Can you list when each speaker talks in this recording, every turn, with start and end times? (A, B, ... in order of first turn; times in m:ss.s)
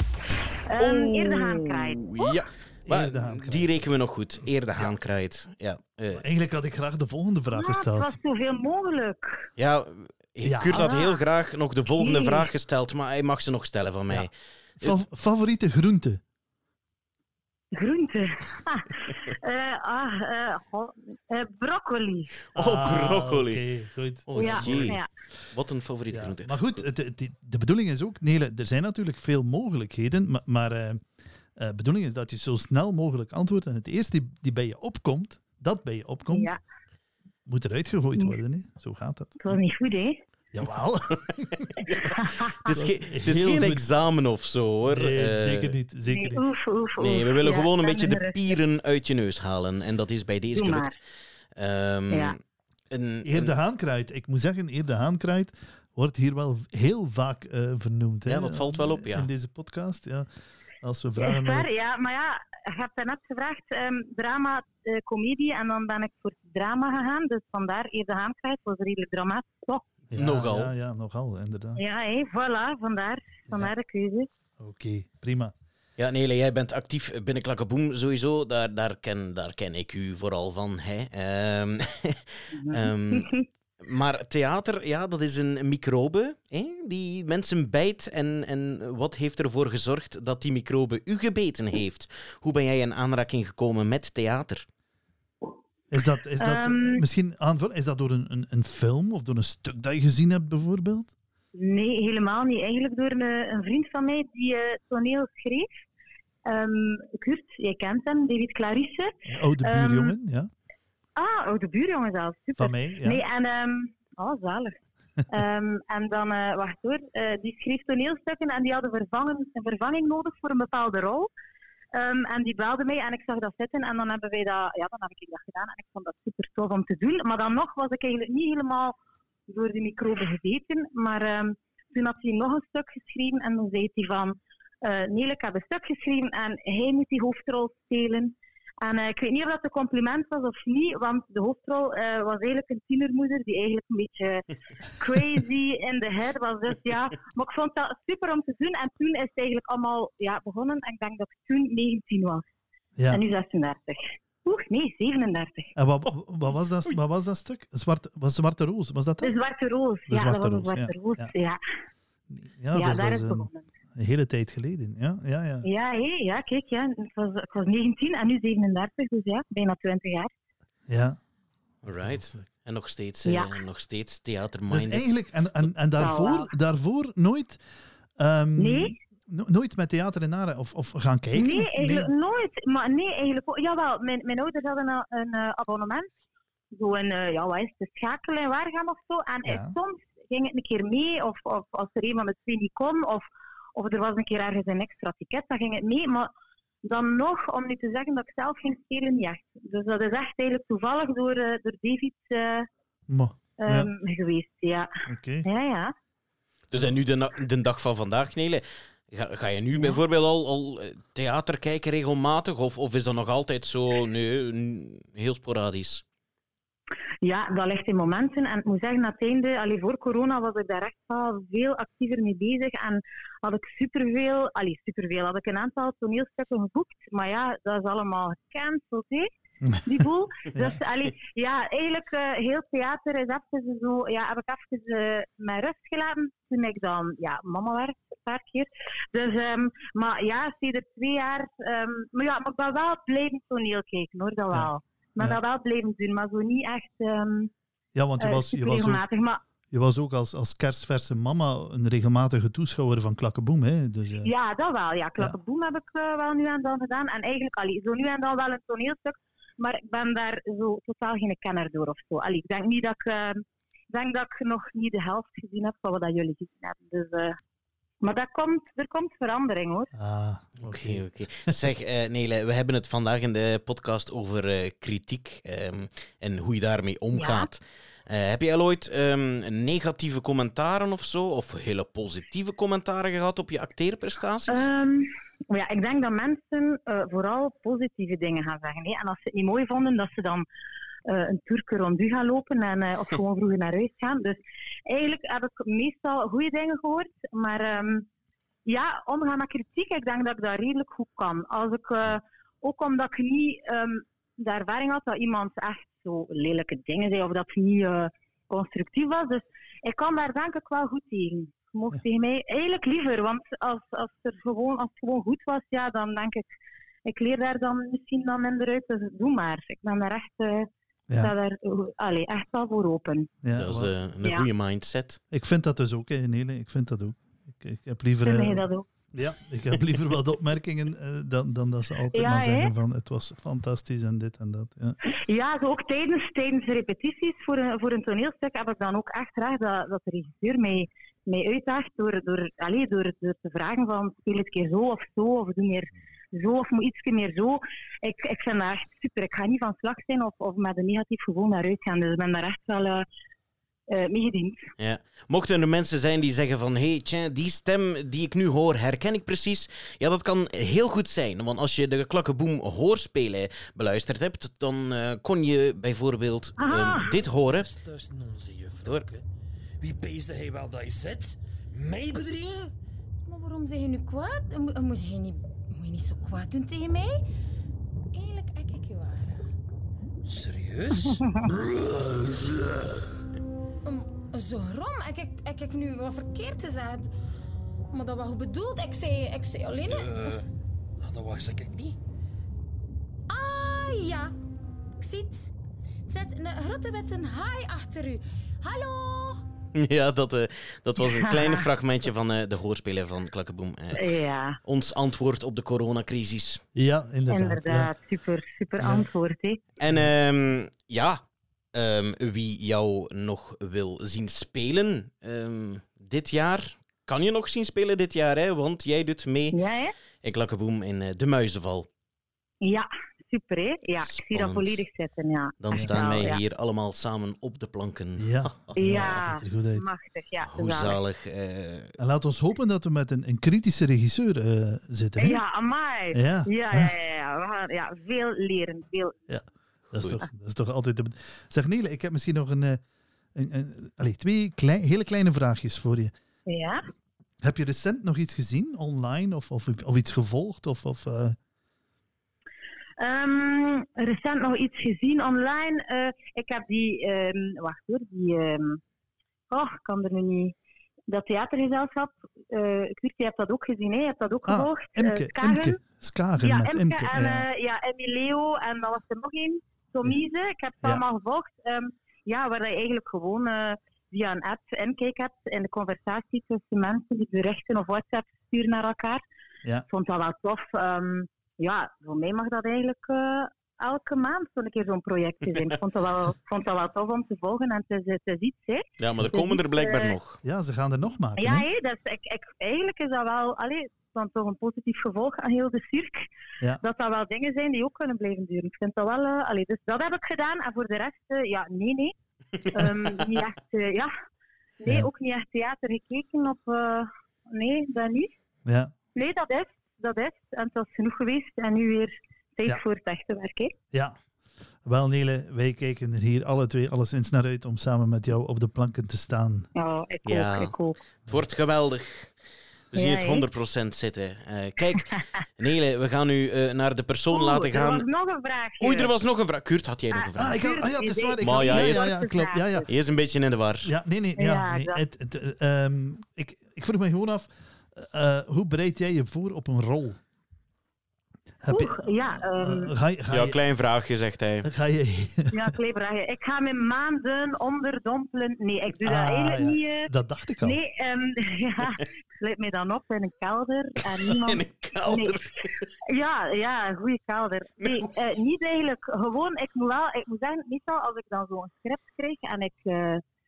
0:00.6-0:02.4 A
0:00.8-0:06.2 B
0:02.8-0:03.8 C
0:06.1-0:08.2 C
0:07.5-0:09.5 A
0:09.6-0:15.0 B
0:10.4-0:10.8 C
0:10.7-0:11.2 A
0:12.0-0:12.5 A
0:14.8-0:16.2 C
0:17.7-0:22.3 A
0:22.5-0:23.6 B
0:22.5-0:25.0 C
0:24.3-0:25.0 B
0:24.4-0:25.1 A
0:25.5-0:26.8 B
0:26.1-0:36.6 C
0:36.3-0:36.6 A
0:37.4-0:39.6 C
0:39.4-0:40.2 A
0:40.5-0:42.1 C
0:41.5-0:45.8 B
0:42.0-0:42.7 A
0:42.7-0:43.8 C
0:44.9-0:46.4 C
0:46.1-0:48.6 A
0:47.0-0:51.0 B
0:50.5-0:50.9 A
0:51.5-0:52.4 B
0:52.1-0:52.4 A
0:52.9-0:53.5 B
0:53.2-1:00.3 C
0:58.2-0:59.3 B
1:00.8-1:01.7 C
1:01.2-1:09.9 A
1:10.1-1:11.8 C
1:10.1-1:10.7 B
1:11.8-1:14.3 A
1:14.6-1:15.5 C
1:16.0-1:34.7 B
1:22.6-1:23.4 A
1:35.9-1:41.1 C
1:36.4-1:37.0 A
1:41.6-1:45.8 A
1:46.4-1:50.1 A
1:49.3-1:50.5 C
1:51.2-2:01.3 A
1:52.6-1:53.2 C
2:01.9-2:08.9 A
2:09.5-2:32.4 A
2:33.0-2:33.2 C
2:33.1-2:35.7 A
2:35.8-2:39.4 C
2:39.2-2:41.6 A
2:40.1-2:41.3 C
2:42.3-2:45.7 C
2:42.7-2:43.6 A
2:45.6-2:50.3 A
2:50.9-2:51.2 C
2:51.8-2:55.2 B
2:52.0-2:52.4 C
2:53.2-2:53.5 A
2:54.7-2:57.6 C
2:56.0-2:56.5 A
2:58.2-3:02.1 C
2:58.6-2:58.9 A
3:01.3-3:06.1 A
3:06.7-3:13.2 A
3:09.4-3:09.7 C
3:13.8-3:16.3 A
3:16.8-3:22.7 A
3:23.1-3:23.9 C
3:23.6-3:24.9 A
3:25.0-3:25.5 C
3:25.4-3:25.9 A
3:26.7-3:36.0 B
3:37.2-3:49.3 A
3:49.6-3:50.8 C
3:49.8-4:07.5 A
4:04.5-4:05.4 C
4:07.9-4:09.0 C
4:08.2-4:09.4 A
4:09.7-4:14.3 C
4:14.2-4:27.4 A
4:28.0-4:29.9 A
4:29.9-4:31.6 C
4:30.6-4:44.7 B
4:37.1-4:37.5 A
4:44.5-4:50.4 A
4:51.0-4:58.1 A
4:58.6-5:16.4 A
5:17.0-5:20.7 A
5:21.2-5:23.3 A
5:23.4-5:23.9 C
5:23.6-5:25.2 B
5:25.3-5:35.0 C
5:28.2-5:28.8 A
5:32.1-5:32.7 A
5:35.0-5:53.0 A
5:53.9-5:54.7 A
5:54.8-6:07.7 B
6:06.6-6:07.1 A
6:07.0-6:09.2 D
6:08.8-6:09.1 B
6:09.8-6:12.7 D
6:13.2-6:17.2 E
6:18.1-6:19.5 E
6:20.2-6:23.0 D
6:23.8-6:27.1 E
6:27.9-6:30.2 E
6:29.9-6:30.4 D
6:31.0-6:32.0 D
6:33.3-6:34.3 E
6:34.9-6:35.5 E
6:36.1-6:39.4 E
6:39.7-6:44.0 B
6:41.0-6:41.6 A
6:43.9-6:44.6 A
6:44.6-6:46.6 B
6:46.7-6:47.9 C
6:47.3-6:49.6 A
6:48.8-6:49.1 C
6:49.8-6:59.6 B
6:59.5-6:59.9 A
7:00.2-7:01.9 B
7:02.6-7:06.4 A
7:04.0-7:04.8 B
7:05.6-7:08.9 B
7:08.2-7:09.9 C
7:08.8-7:11.0 A
7:10.4-7:12.0 B
7:12.0-7:15.4 C
7:15.2-7:19.2 A
7:16.1-7:16.9 C
7:19.3-7:22.8 C
7:19.9-7:20.2 B
7:23.3-7:26.1 C
7:26.5-7:26.8 A
7:27.4-7:31.4 C
7:33.0-7:38.8 A
7:39.5-7:40.5 A
7:41.1-7:45.8 A
7:44.4-7:47.5 C
7:46.4-7:59.2 A
7:59.9-8:10.1 A
8:09.0-8:10.4 B
8:10.4-8:11.6 C
8:11.4-8:16.2 A
8:16.8-8:22.1 A
8:22.6-8:23.3 B
8:22.7-8:24.1 A
8:24.8-8:28.3 A
8:28.6-8:28.9 C
8:29.1-8:33.7 A
8:33.9-8:34.2 C
8:34.8-8:39.7 C
8:39.7-8:41.0 A
8:40.2-8:42.3 B
8:42.9-8:48.0 B
8:42.9-8:43.4 A
8:47.3-8:49.1 A
8:48.8-8:50.6 B
8:50.1-8:52.9 A
8:50.4-8:52.9 C
8:51.4-8:52.1 B
8:52.9-8:53.9 B
8:53.8-9:00.2 C
8:54.4-8:55.0 A
9:01.6-9:03.6 C
9:01.7-9:02.9 A
9:03.3-9:04.7 B
9:04.6-9:05.8 C
9:05.5-9:10.1 A
9:09.0-9:10.8 C
9:10.6-9:23.2 A
9:14.1-9:15.9 B
9:17.8-9:18.1 B